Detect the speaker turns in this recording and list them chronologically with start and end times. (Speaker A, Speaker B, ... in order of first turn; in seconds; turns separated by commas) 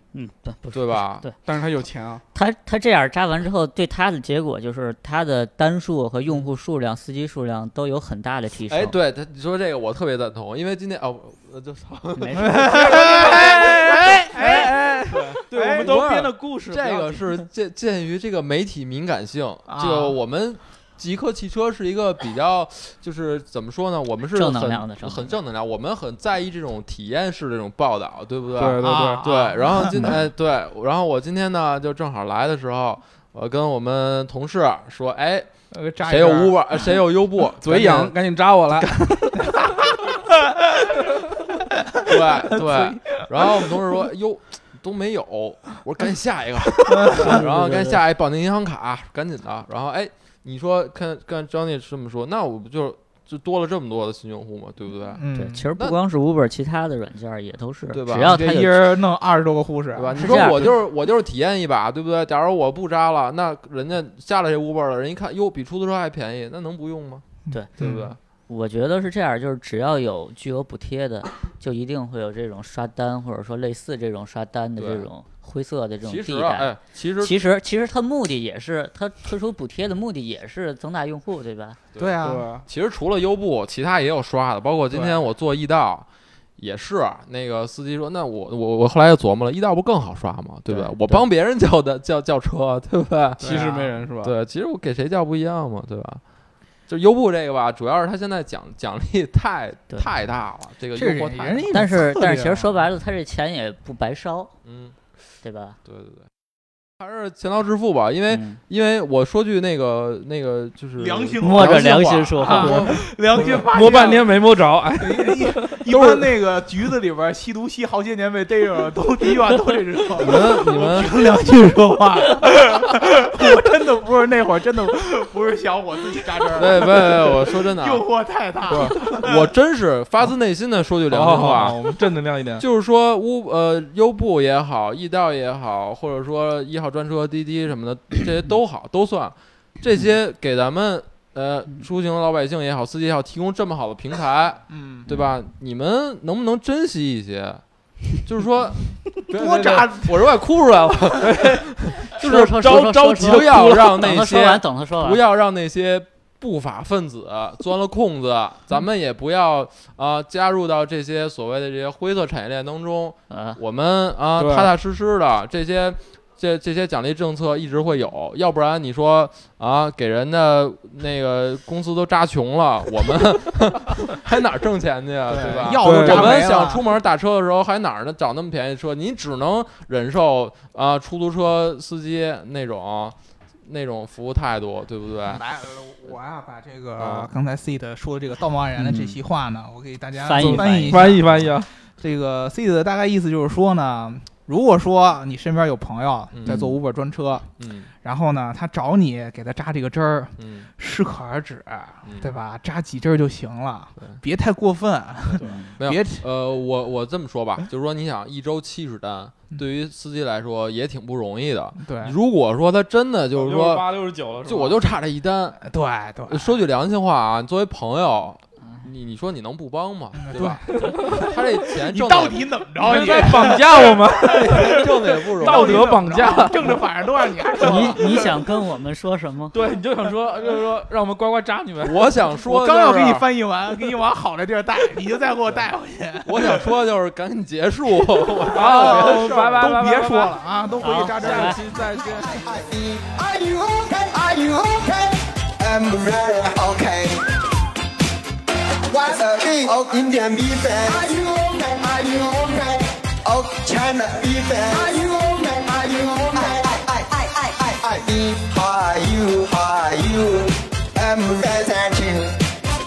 Speaker A: 0.1-1.4, Speaker B: 0.7-1.3, Speaker C: 1.4-2.2, Speaker A: 2.3-8.9, Speaker B: 8.7-35.5, Speaker A: 12.2-13.0, Speaker D: 12.4-16.0, Speaker C: 13.5-17.5, Speaker D: 19.7-20.2, Speaker A: 24.3-25.4, Speaker C: 28.5-29.5, Speaker D: 28.8-30.1, Speaker A: 29.9-30.2, Speaker D: 35.7-37.0, Speaker B: 36.0-38.1, Speaker C: 37.6-39.5, Speaker D: 39.4-40.9, Speaker D: 41.9-43.9, Speaker B: 42.1-56.0, Speaker D: 46.9-47.3, Speaker A: 47.1-48.0, Speaker D: 55.1-55.7, Speaker A: 55.3-58.9, Speaker B: 57.9-58.4, Speaker D: 58.2-60.5, Speaker B: 59.9-67.2, Speaker A: 60.1-60.6, Speaker D: 67.5-68.2, Speaker B: 67.8-68.2, Speaker A: 68.5-81.8, Speaker B: 74.8-75.1, Speaker B: 76.0-77.4, Speaker B: 81.9-86.1, Speaker D: 82.0-82.5, Speaker C: 82.2-82.7, Speaker B: 86.6-96.2, Speaker A: 90.7-91.2, Speaker C: 93.4-94.3, Speaker D: 93.4-94.0, Speaker B: 96.9-101.7, Speaker D: 100.9-102.8, Speaker A: 101.7-104.5, Speaker B: 104.6-105.0, Speaker A: 105.4-105.8, Speaker B: 105.8-106.3, Speaker B: 107.0-113.7, Speaker A: 108.3-108.6, Speaker D: 111.0-114.4, Speaker A: 111.4-113.0, Speaker C: 113.7-116.2, Speaker D: 115.0-129.5, Speaker B: 120.2-121.2, Speaker B: 126.5-128.1, Speaker B: 128.7-131.8, Speaker C: 131.1-132.6, Speaker B: 132.6-185.4, Speaker D: 144.7-145.1, Speaker D: 149.3-150.4, Speaker C: 151.2-151.6, Speaker A: 152.2-155.2, Speaker C: 153.2-153.9, Speaker A: 163.3-163.6, Speaker C: 164.3-164.7, Speaker D: 175.3-176.9, Speaker C: 175.8-176.4, Speaker D: 185.3-191.2, Speaker B: 186.9-187.3, Speaker A: 188.8-189.2, Speaker A: 190.2-191.2, Speaker C: 190.4-191.7, Speaker B: 191.2-191.5, Speaker D: 191.8-206.3, Speaker B: 196.3-196.7, Speaker B: 197.6-197.9, Speaker B: 200.4-200.7, Speaker B: 202.0-202.4, Speaker B: 204.0-204.2, Speaker B: 205.3-213.9, Speaker A: 205.4-205.8, Speaker D: 211.8-212.2, Speaker C: 213.3-214.8, Speaker B: 214.4-215.6, Speaker D: 215.6-216.6, Speaker B: 216.2-220.7, Speaker D: 220.1-228.4, Speaker C: 220.7-221.3, Speaker B: 221.3-222.5, Speaker C: 222.8-227.7, Speaker B: 224.2-225.8, Speaker A: 227.6-229.6, Speaker C: 229.5-232.1, Speaker B: 231.8-233.3, Speaker D: 232.4-236.7, Speaker B: 235.4-235.7, Speaker B: 236.2-239.7, Speaker C: 238.5-240.4, Speaker D: 238.5-241.7, Speaker A: 240.8-241.6, Speaker C: 241.2-242.8, Speaker E: 242.2-247.3, Speaker E: 248.9-262.4